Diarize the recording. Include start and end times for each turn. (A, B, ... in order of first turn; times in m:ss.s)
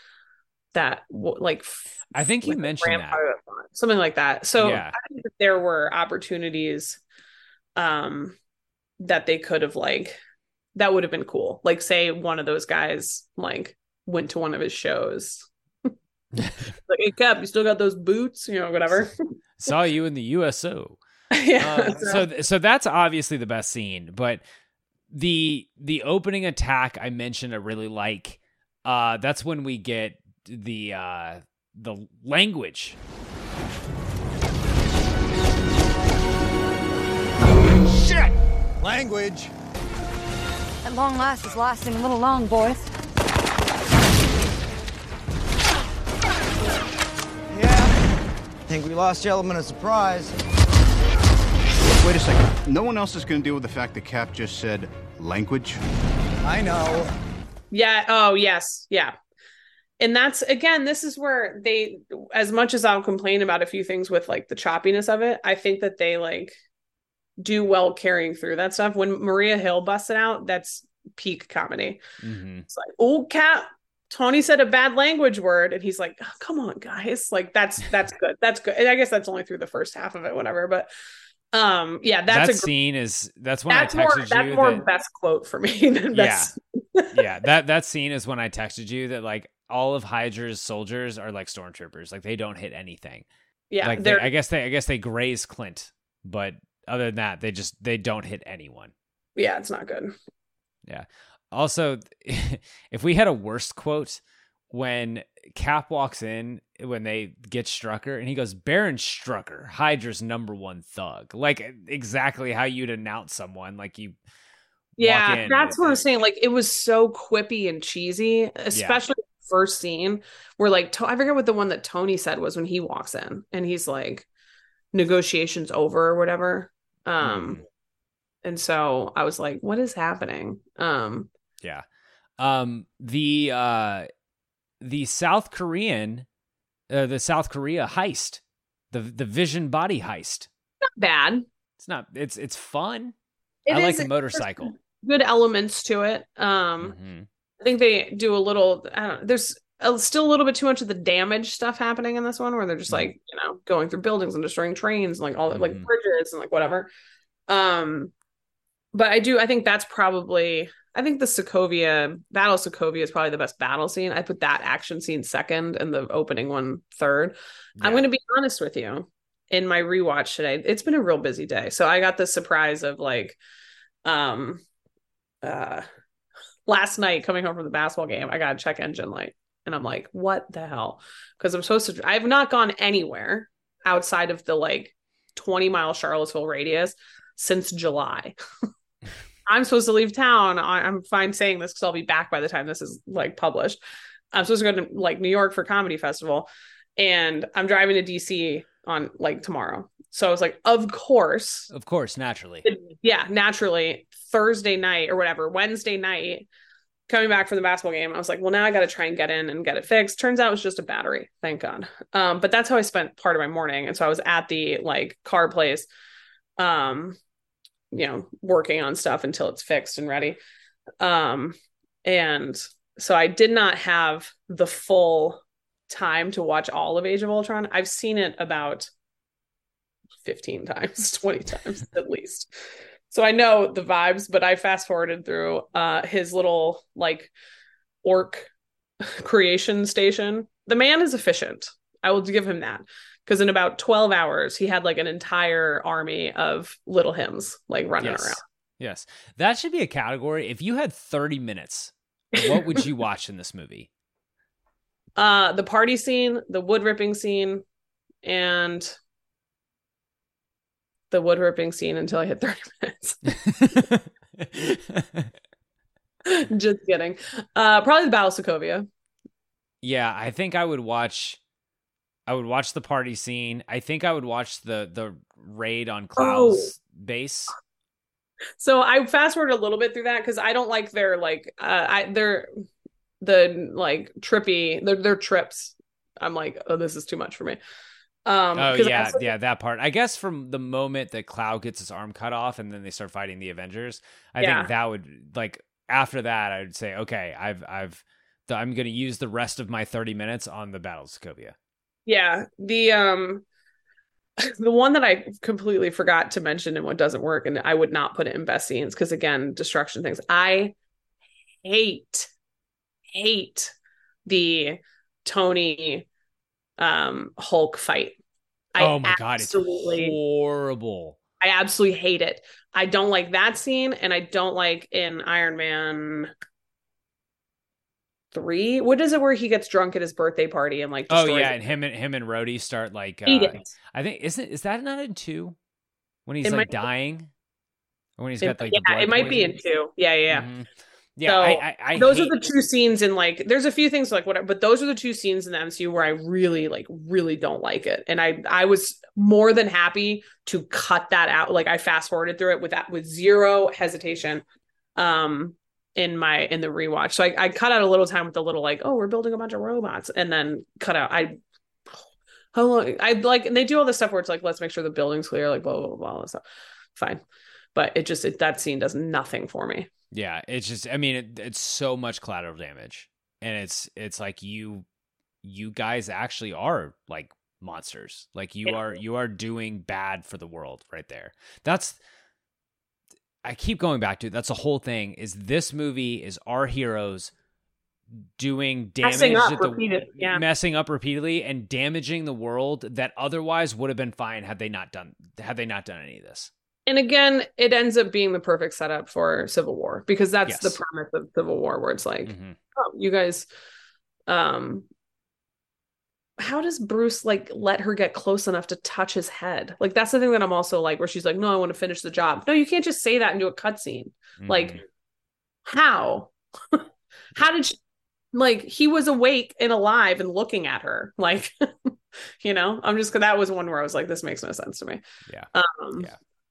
0:00.7-0:07.0 A
0:02.1-0:03.2 B
0:04.6-0:04.9 B
0:07.8-0:08.3 A
0:09.0-0:10.2 A
0:10.8-0:15.5 A
0:16.9-0:19.1 A
0:19.6-0:21.0 B
0:21.3-0:22.2 A
0:21.6-0:24.4 B
0:25.1-0:33.0 B
0:40.8-0:42.9 C
0:47.5-0:47.8 D
0:48.7-0:50.3 D
0:52.0-0:55.8 E
0:56.5-0:57.0 D
0:57.7-0:59.1 A
1:00.0-1:06.6 A
1:07.4-1:12.0 A
1:12.2-1:12.6 B
1:12.7-1:20.9 A
1:21.5-1:22.7 A
1:22.3-1:24.8 B
1:23.7-1:27.2 A
1:26.1-1:26.5 B
1:27.1-1:33.2 B
1:33.7-1:34.3 A
1:33.8-1:38.9 B
1:39.4-1:40.1 A
1:40.9-1:54.2 B
1:55.0-1:56.0 B
1:55.0-2:04.2 A
1:58.7-1:59.0 B
2:04.9-2:07.6 A
2:07.2-2:07.6 B
2:08.4-2:11.3 A
2:12.4-2:14.1 B
2:14.8-2:16.2 B
2:16.9-2:18.4 B
2:18.9-2:20.5 B
2:21.0-2:21.4 A
2:21.8-2:23.1 B
2:23.6-2:27.0 A
2:23.7-2:24.7 B
2:26.8-2:27.2 B
2:27.6-2:36.9 A
2:35.5-2:35.9 B
2:37.5-2:38.1 A
2:38.9-2:53.4 A
2:54.0-2:54.6 A
2:55.4-2:55.8 A
2:56.7-3:08.3 A
3:09.5-3:13.8 A
3:14.3-3:21.7 A
3:21.7-3:22.6 B
3:22.6-3:26.5 A
3:27.1-3:35.8 A
3:36.6-3:37.2 A
3:37.9-3:40.4 A
3:41.0-3:48.9 A
3:50.2-3:52.5 A
3:53.1-3:57.3 A
3:58.0-3:58.5 A
3:59.0-4:08.4 A
4:08.0-4:13.9 B
4:15.2-4:17.6 A
4:18.2-4:18.9 A
4:21.1-4:23.2 A
4:23.5-4:25.3 B
4:26.2-4:28.9 A
4:29.8-4:31.4 B
4:32.3-4:37.5 B
4:36.2-4:36.7 A
4:38.6-4:42.5 A
4:43.2-4:47.6 A
4:48.2-4:49.3 A
4:48.6-5:01.5 B
4:54.4-4:54.7 A
5:02.1-5:03.4 A
5:04.6-5:10.7 A
5:11.6-5:12.3 A
5:13.1-5:13.7 A
5:14.3-5:16.0 A
5:16.8-5:18.2 A
5:18.8-5:20.2 A
5:18.8-5:21.2 B
5:21.4-5:26.3 A
5:28.3-5:31.5 A
5:31.1-5:35.6 B
5:33.2-5:33.7 A
5:36.2-5:37.3 B
5:36.4-5:36.8 A
5:38.2-5:39.5 B
5:38.4-5:40.5 A
5:40.3-5:42.3 B
5:41.2-5:54.4 A
5:55.0-6:01.4 A
6:02.5-6:06.4 A
6:06.9-6:07.2 A
6:07.7-6:09.9 A
6:10.1-6:14.8 B
6:15.4-6:22.0 B
6:23.4-6:27.3 B
6:28.4-6:36.5 B
6:29.0-6:30.4 A
6:36.9-6:43.5 A
6:40.4-6:40.8 B
6:42.2-6:42.6 B
6:44.3-6:44.9 A
6:46.4-6:54.8 A
6:54.4-6:54.8 B
6:55.7-6:56.8 A
6:57.3-6:57.8 A
6:58.3-7:05.0 A
7:05.3-7:06.1 B
7:05.5-7:06.1 A